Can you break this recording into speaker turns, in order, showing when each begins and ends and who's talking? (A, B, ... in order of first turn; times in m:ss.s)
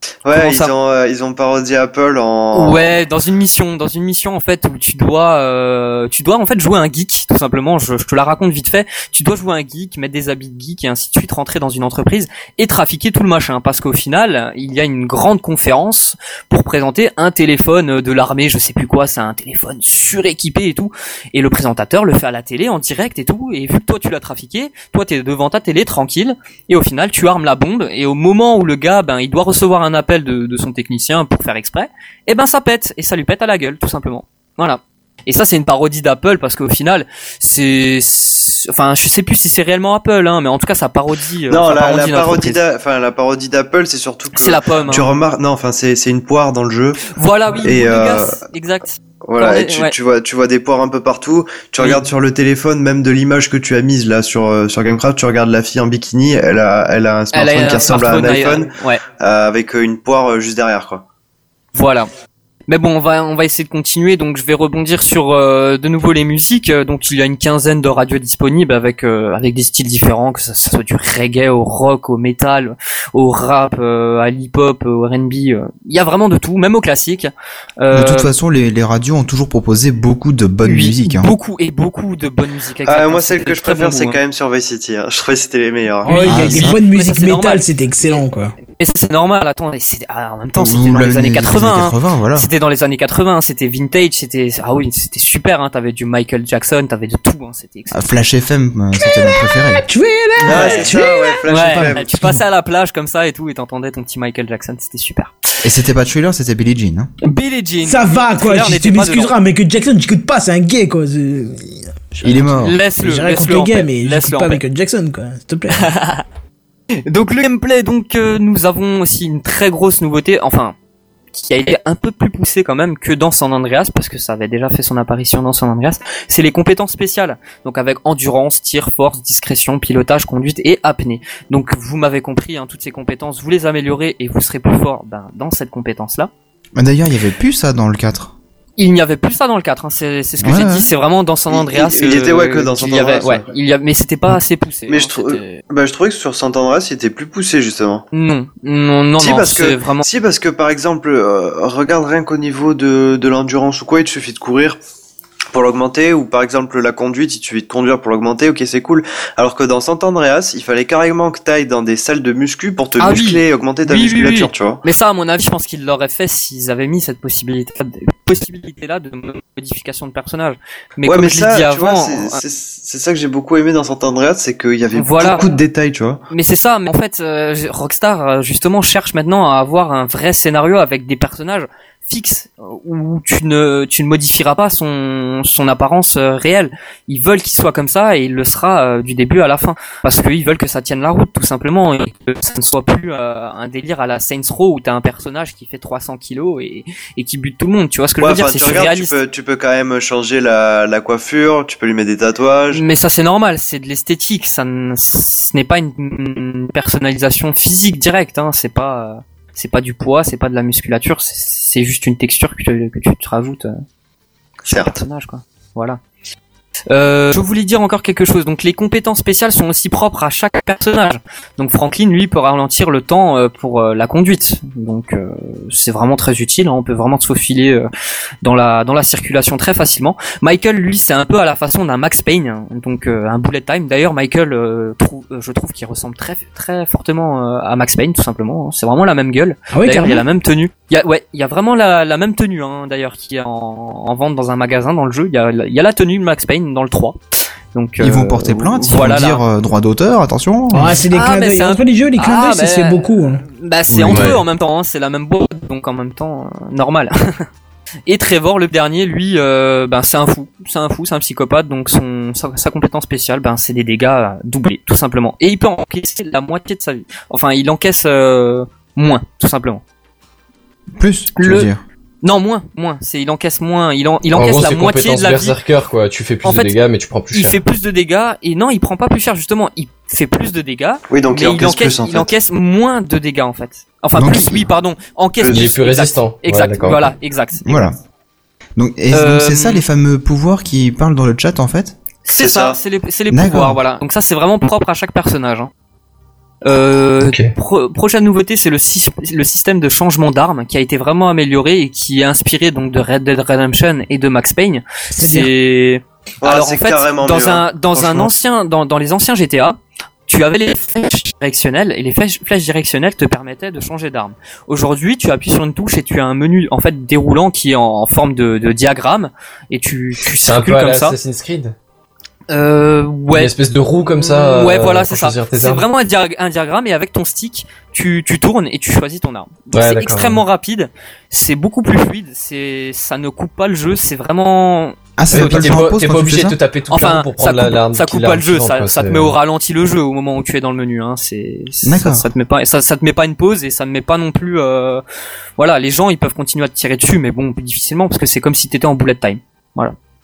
0:00.2-0:02.9 A
0:00.3-0:00.7 B
0:02.5-0:42.6 B
0:41.5-0:47.0 A
0:44.3-0:45.1 B
0:47.1-0:50.0 B
0:47.6-0:48.4 A
0:49.2-1:01.0 A
0:51.8-0:52.0 B
0:57.3-0:59.0 B
1:01.7-1:02.1 B
1:02.7-1:18.3 B
1:17.9-1:21.3 C
1:20.6-1:24.2 B
1:22.8-1:26.4 A
1:26.0-1:28.6 D
1:26.0-1:38.2 B
1:26.2-1:26.8 C
1:30.6-1:32.5 C
1:37.9-1:39.8 C
1:39.1-1:42.4 D
1:40.4-1:42.2 A
1:40.5-1:45.4 B
1:45.6-1:47.1 C
1:47.2-1:49.3 B
1:47.8-1:52.5 D
1:52.2-1:54.6 B
1:52.2-1:52.8 C
1:53.0-1:55.9 D
1:55.8-1:56.2 B
1:57.1-2:00.8 B
2:01.3-2:16.3 B
2:16.8-2:18.4 C
2:18.8-2:25.6 B
2:20.4-2:20.9 C
2:21.5-2:23.5 A
2:24.9-2:28.1 A
2:28.1-2:30.1 B
2:29.2-2:34.8 A
2:35.5-2:44.8 A
2:43.0-2:52.4 B
2:51.1-2:56.2 A
2:54.9-2:55.5 B
2:56.3-3:19.2 B
3:18.2-3:22.8 A
3:22.7-3:33.8 B
3:34.7-3:36.0 B
3:34.7-3:35.0 A
3:36.9-3:47.9 B
3:48.4-4:07.2 B
3:59.7-4:00.2 D
4:07.7-4:09.4 B
4:08.0-4:11.0 C
4:10.7-4:13.4 D
4:11.1-4:17.4 B
4:13.9-4:14.4 E
4:14.0-4:14.3 C
4:18.1-4:29.8 B
4:31.0-4:31.8 C
4:31.4-4:31.7 B
4:32.2-4:35.6 B
4:34.3-4:37.6 E
4:36.4-4:36.7 B
4:37.3-4:47.9 B
4:41.1-4:42.3 A
4:44.2-4:44.7 C
4:45.4-4:45.7 A
4:45.5-4:47.1 E
4:47.6-4:48.0 C
4:48.8-4:52.0 C
4:49.1-4:49.8 B
4:52.2-4:55.7 B
4:52.4-4:52.8 A
4:53.3-4:53.8 C
4:56.6-5:21.2 B
4:57.2-4:57.5 E
5:05.2-5:05.5 D
5:06.4-5:08.3 A
5:20.4-5:21.8 E
5:22.5-5:23.5 B
5:23.3-5:25.9 E
5:24.1-5:35.8 B
5:29.7-5:30.4 E
5:35.2-5:36.6 C
5:35.3-5:39.4 E
5:36.9-5:45.0 B
5:41.8-5:42.3 C
5:45.6-5:50.0 B